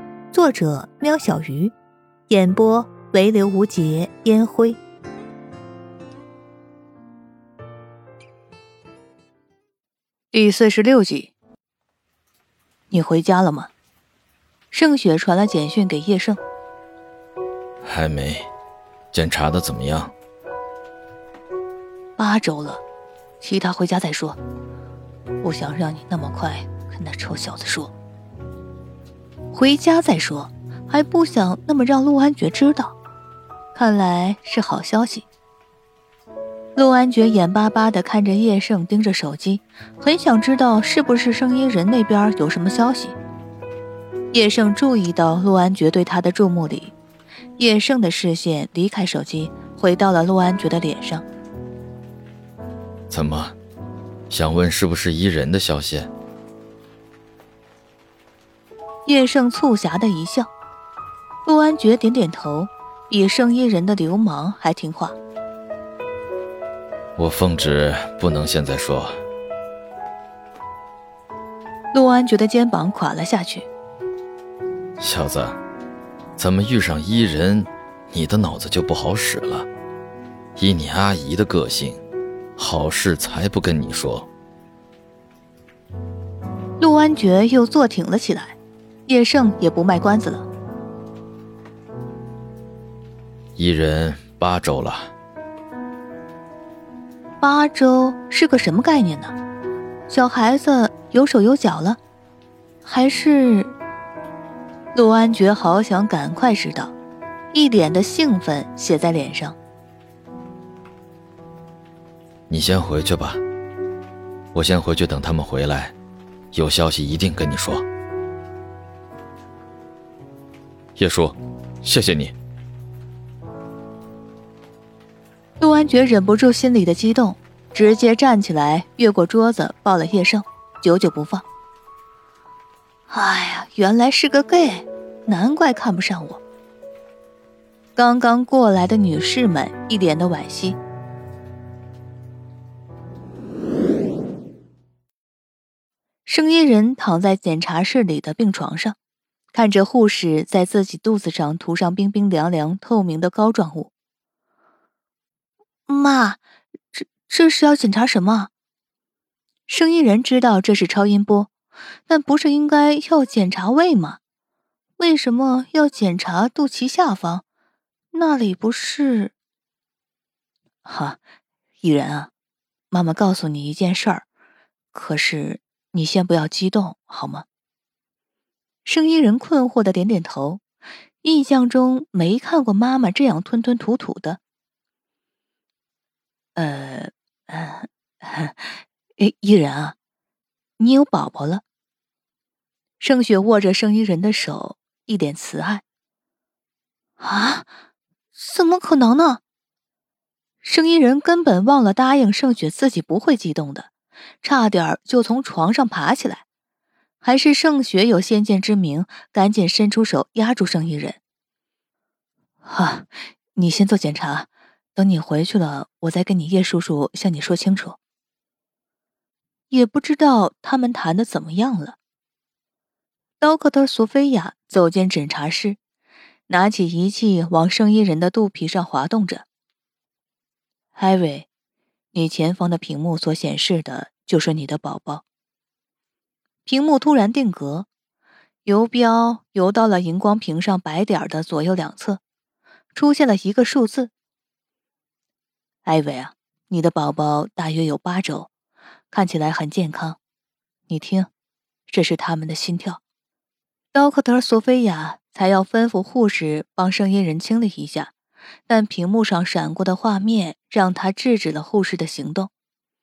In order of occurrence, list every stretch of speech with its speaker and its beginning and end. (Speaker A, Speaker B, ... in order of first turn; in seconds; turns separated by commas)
Speaker A: 0.3-1.7, Speaker A: 2.3-4.8, Speaker A: 10.3-11.3, Speaker A: 12.9-13.7, Speaker A: 14.7-16.4, Speaker B: 17.8-18.5, Speaker B: 19.1-20.1, Speaker A: 22.2-22.8, Speaker A: 23.4-24.4, Speaker A: 25.4-27.9, Speaker A: 29.5-33.0, Speaker A: 33.8-35.3, Speaker A: 36.8-43.2, Speaker A: 44.3-47.0, Speaker A: 47.6-51.2, Speaker B: 53.1-53.5, Speaker B: 54.3-56.1, Speaker A: 59.1-60.5, Speaker A: 61.5-65.2, Speaker B: 67.2-69.2, Speaker A: 71.9-73.7, Speaker B: 75.0-75.6, Speaker B: 76.4-79.7, Speaker B: 80.6-82.0, Speaker B: 82.6-84.3, Speaker A: 86.8-88.6, Speaker A: 89.1-90.5, Speaker B: 93.6-95.1, Speaker A: 97.4-99.4, Speaker A: 100.1-102.0, Speaker A: 102.8-103.7, Speaker A: 104.9-106.9, Speaker A: 107.5-109.6, Speaker B: 112.5-113.4, Speaker B: 114.5-116.0, Speaker B: 116.5-117.8, Speaker B: 121.0-122.3, Speaker A: 125.6-131.4, Speaker A: 133.1-136.4, Speaker A: 138.0-140.8, Speaker A: 146.2-148.9, Speaker A: 149.5-153.9, Speaker A: 155.9-158.5, Speaker A: 159.7-161.5, Speaker A: 162.1-164.2, Speaker A: 165.0-167.4, Speaker A: 168.1-169.3, Speaker A: 170.8-171.2, Speaker A: 171.8-172.3, Speaker A: 172.9-174.2, Speaker A: 174.9-177.4, Speaker A: 178.8-180.6, Speaker A: 181.2-184.4, Speaker A: 186.6-190.0, Speaker A: 190.8-191.6, Speaker A: 193.0-195.8, Speaker A: 197.2-197.7, Speaker A: 198.3-199.4, Speaker A: 200.6-203.9, Speaker A: 204.4-206.4, Speaker A: 207.2-211.2, Speaker A: 212.6-218.0, Speaker A: 219.7-222.0, Speaker A: 223.4-225.8, Speaker A: 226.5-229.4, Speaker A: 231.0-231.5, Speaker A: 232.1-235.2, Speaker A: 236.7-237.9, Speaker A: 238.7-242.2, Speaker A: 242.9-244.1, Speaker A: 245.8-248.5, Speaker A: 249.1-250.2, Speaker A: 250.9-251.3, Speaker A: 251.9-253.0, Speaker A: 253.9-258.1, Speaker A: 258.7-262.5